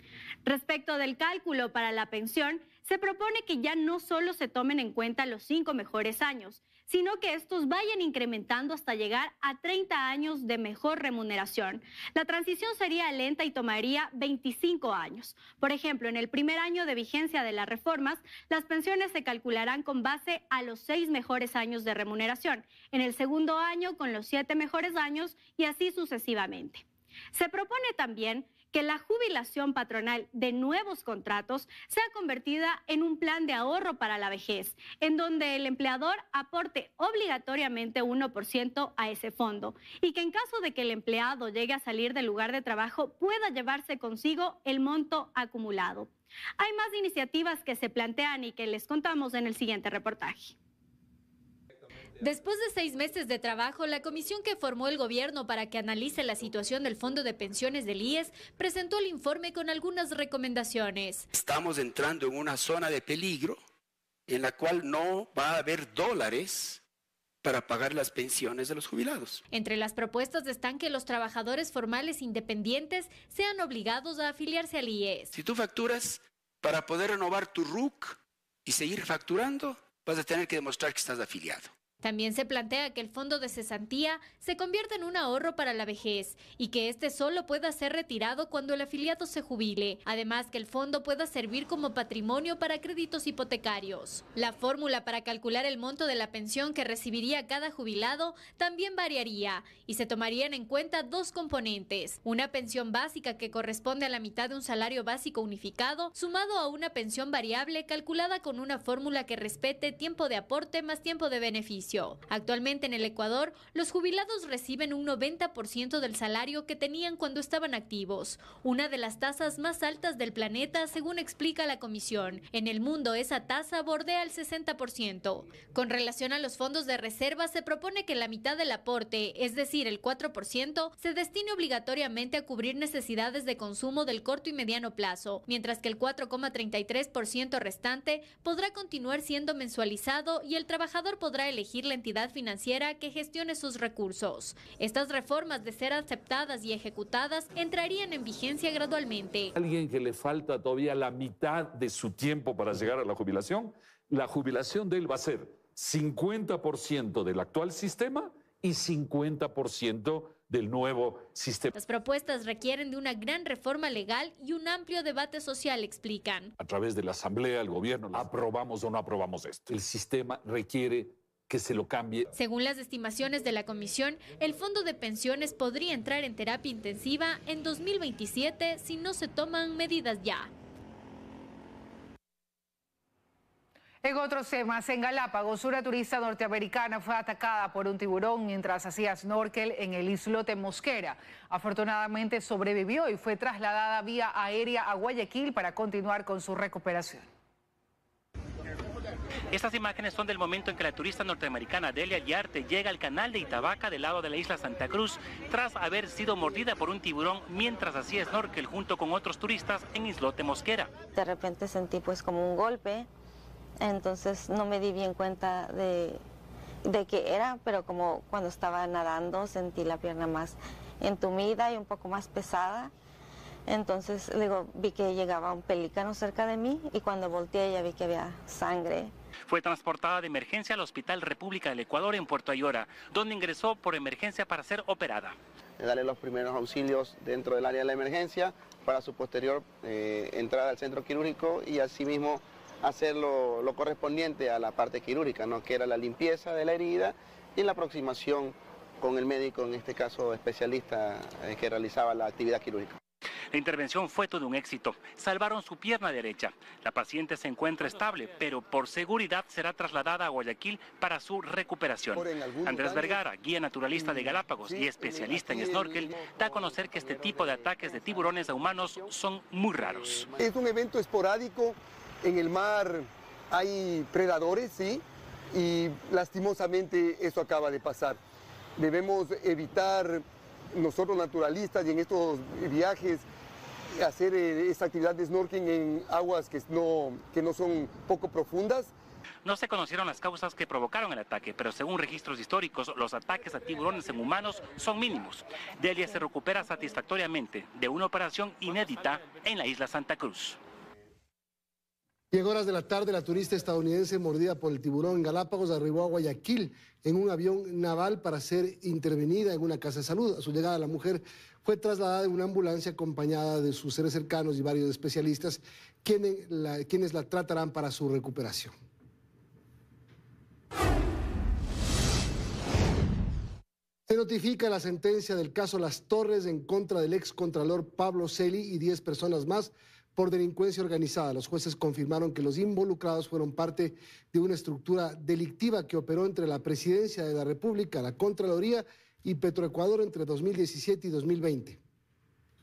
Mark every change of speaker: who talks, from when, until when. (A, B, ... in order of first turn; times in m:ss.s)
0:00.4-0:50.6 A
0:52.2-1:01.3 B
1:01.3-1:03.6 C
1:04.3-1:06.8 C
1:07.4-1:09.4 C
1:09.5-1:15.3 B
1:15.3-1:21.7 C
1:22.0-2:29.5 B
2:29.6-2:41.7 D
2:41.8-2:46.5 B
2:46.6-2:52.3 D
2:52.3-3:00.5 B
3:04.0-3:17.3 E
3:19.5-3:30.9 F
3:31.1-3:33.1 G
3:33.8-3:36.2 G
3:36.9-3:42.9 G
3:43.7-3:49.1 G
3:49.5-3:55.4 F
3:55.8-4:13.0 H
4:13.5-4:30.4 F
4:22.2-4:22.6 I
4:30.4-4:38.2 I
4:38.8-4:43.2 I
4:44.0-4:48.9 I
4:49.4-5:00.6 F
5:02.3-5:18.7 J
5:24.1-5:41.8 J